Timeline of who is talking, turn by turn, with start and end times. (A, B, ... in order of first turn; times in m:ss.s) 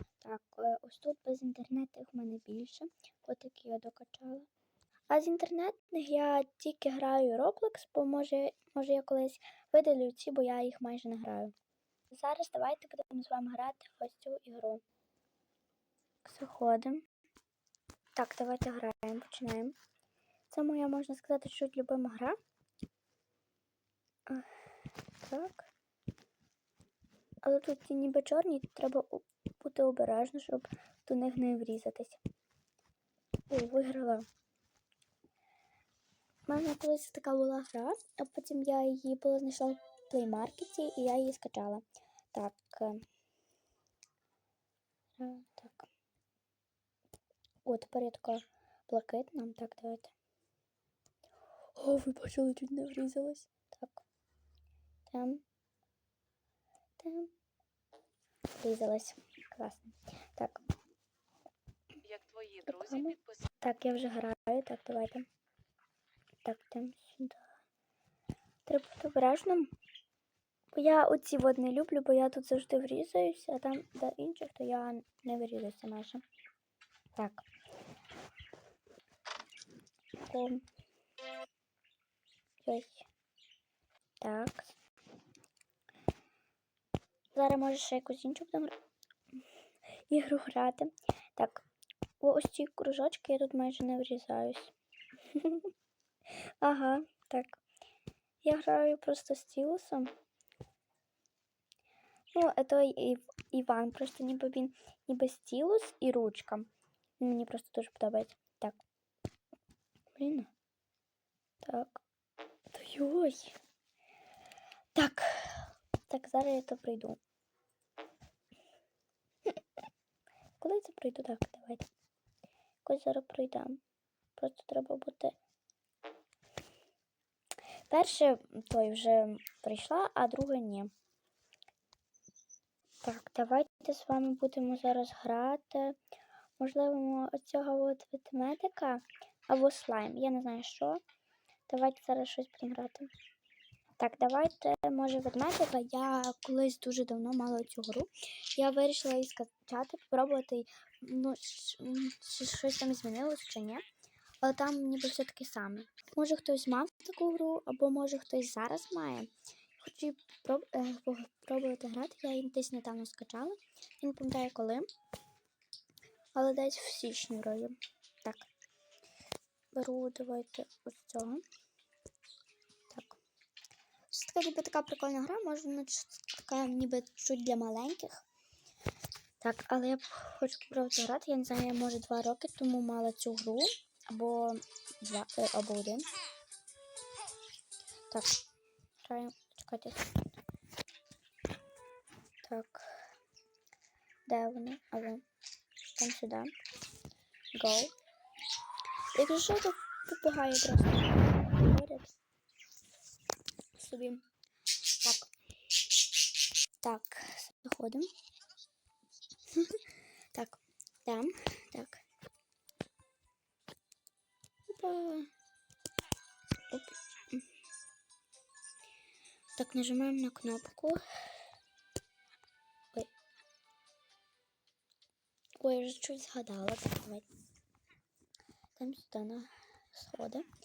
0:00.2-0:04.5 A
0:05.1-0:11.5 A
0:12.1-0:14.8 A
0:16.2-0:17.0 A
0:18.2-0:19.8 A
0:20.5-0:22.4 A
0:25.2-0:25.7 A
0:27.4-0:32.2 A
0:33.5-0:34.2 A
0:36.4-0:43.0 A
0:45.2-0:45.9 A
0:47.6-0:50.1 A
0:51.8-0:54.0 A
0:55.1-0:55.4 A
0:57.0-0:57.3 A
0:58.6-1:00.6 A
1:02.4-1:05.2 A
1:06.4-1:07.4 A
1:08.6-1:09.7 A
1:10.7-1:16.2 A
1:17.2-1:17.4 A
1:20.2-1:20.6 A
1:22.6-1:23.1 A
1:24.2-1:24.7 A
1:27.3-1:28.7 A
1:30.1-1:31.6 A
1:32.2-1:34.7 A
1:35.3-1:35.7 A
1:36.3-1:37.6 A
1:38.4-1:40.1 A
1:42.3-1:48.8 A
1:50.1-1:50.5 A
1:51.6-1:52.0 A
1:52.7-1:53.6 A
1:54.9-1:57.2 A
2:00.6-2:01.8 A
2:02.8-2:03.8 A
2:04.4-2:05.4 A
2:07.9-2:10.9 A
2:13.0-2:16.0 A
2:16.6-2:21.0 A
2:21.7-2:23.1 A
2:24.0-2:33.8 A
2:34.4-2:44.9 A
2:46.3-2:48.5 A
2:49.7-2:51.4 A
2:52.9-2:53.2 A
2:54.1-2:58.2 A
2:59.4-3:06.0 A
3:08.1-3:08.4 A
3:09.0-3:10.1 A
3:12.4-3:13.0 A
3:14.3-3:15.2 A
3:16.0-3:16.5 A
3:17.5-3:17.9 A
3:19.1-3:22.1 A
3:23.7-3:24.2 A
3:25.0-3:25.3 A
3:26.8-3:28.1 A
3:29.5-3:32.0 A
3:34.7-3:35.3 A
3:36.7-3:37.4 A
3:39.6-3:41.0 A
3:45.6-3:47.3 A
3:48.8-3:50.5 A